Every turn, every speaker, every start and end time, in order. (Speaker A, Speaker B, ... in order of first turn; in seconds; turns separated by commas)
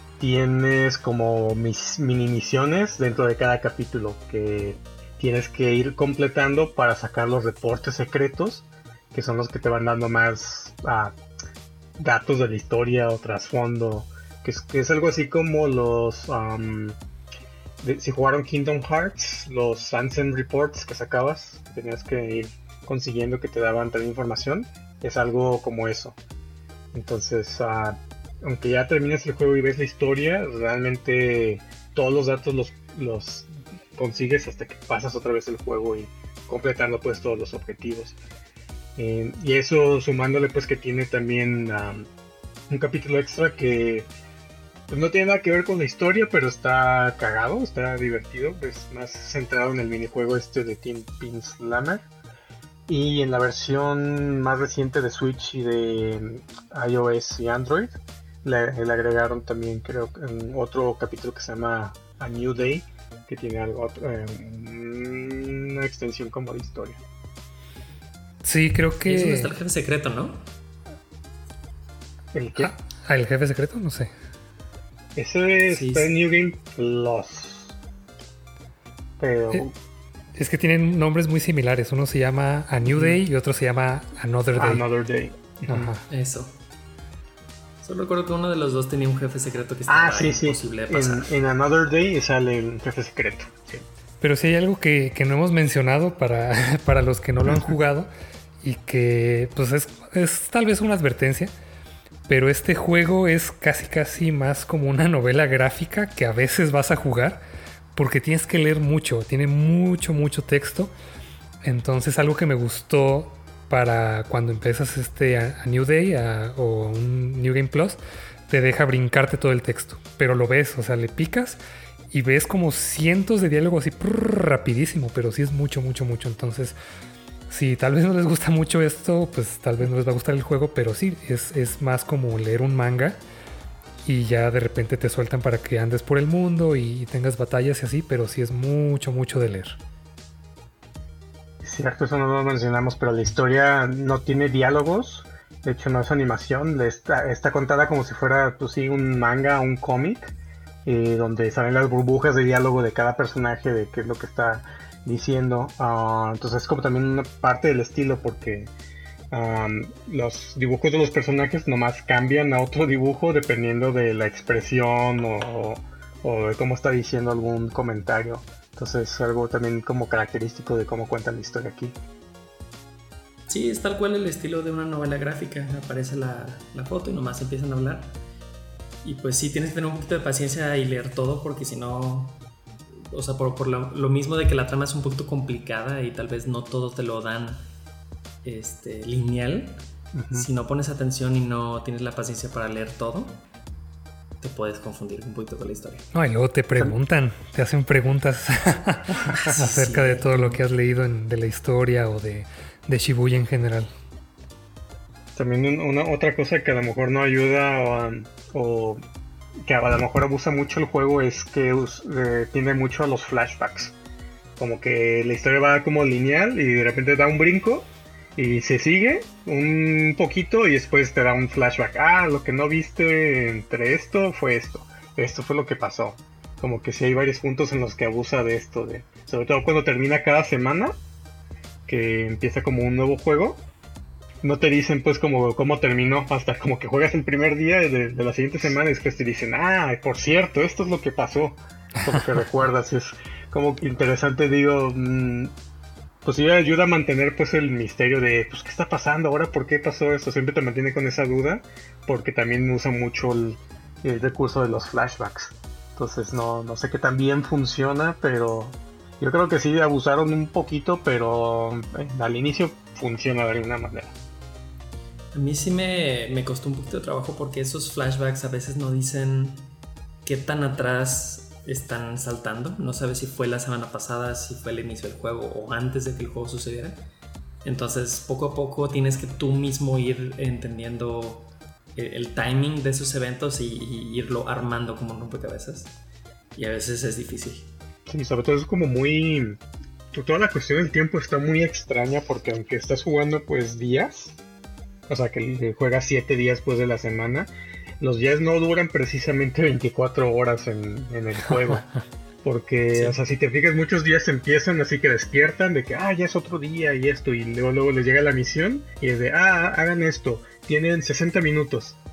Speaker A: 0.2-11.1, Speaker A: 12.0-17.0, Speaker A: 17.8-26.2, Speaker A: 26.9-38.2, Speaker A: 39.0-42.1, Speaker A: 42.7-44.1, Speaker A: 44.9-52.1, Speaker A: 52.9-67.0, Speaker B: 68.4-69.5, Speaker C: 69.0-70.4, Speaker A: 72.3-72.7, Speaker B: 72.6-74.1, Speaker A: 75.2-77.8, Speaker C: 75.7-76.1, Speaker A: 79.2-79.8, Speaker B: 80.4-84.8, Speaker A: 84.5-85.9, Speaker B: 85.7-86.0, Speaker C: 86.1-86.5, Speaker C: 87.8-91.4, Speaker A: 89.9-93.8, Speaker B: 94.2-98.1, Speaker B: 98.6-101.5, Speaker B: 102.3-107.4, Speaker B: 108.0-110.9, Speaker B: 111.6-121.6, Speaker B: 122.1-126.8, Speaker B: 127.5-133.2, Speaker B: 134.1-139.8, Speaker A: 141.6-158.7, Speaker A: 159.3-172.0, Speaker C: 173.5-178.2, Speaker C: 179.0-182.4, Speaker C: 183.1-187.7, Speaker C: 188.4-189.8, Speaker A: 190.1-190.5, Speaker C: 190.3-193.4, Speaker C: 194.4-196.1, Speaker B: 196.1-203.9, Speaker C: 199.3-200.6, Speaker A: 205.4-209.0, Speaker A: 209.7-213.9, Speaker A: 214.6-231.0, Speaker A: 231.9-233.6, Speaker A: 234.4-245.5, Speaker A: 246.2-264.1, Speaker C: 265.3-269.7, Speaker C: 270.2-277.0, Speaker C: 277.6-285.9, Speaker C: 286.6-287.7, Speaker A: 288.1-289.6, Speaker A: 290.1-294.4, Speaker A: 295.1-301.9, Speaker A: 302.4-312.0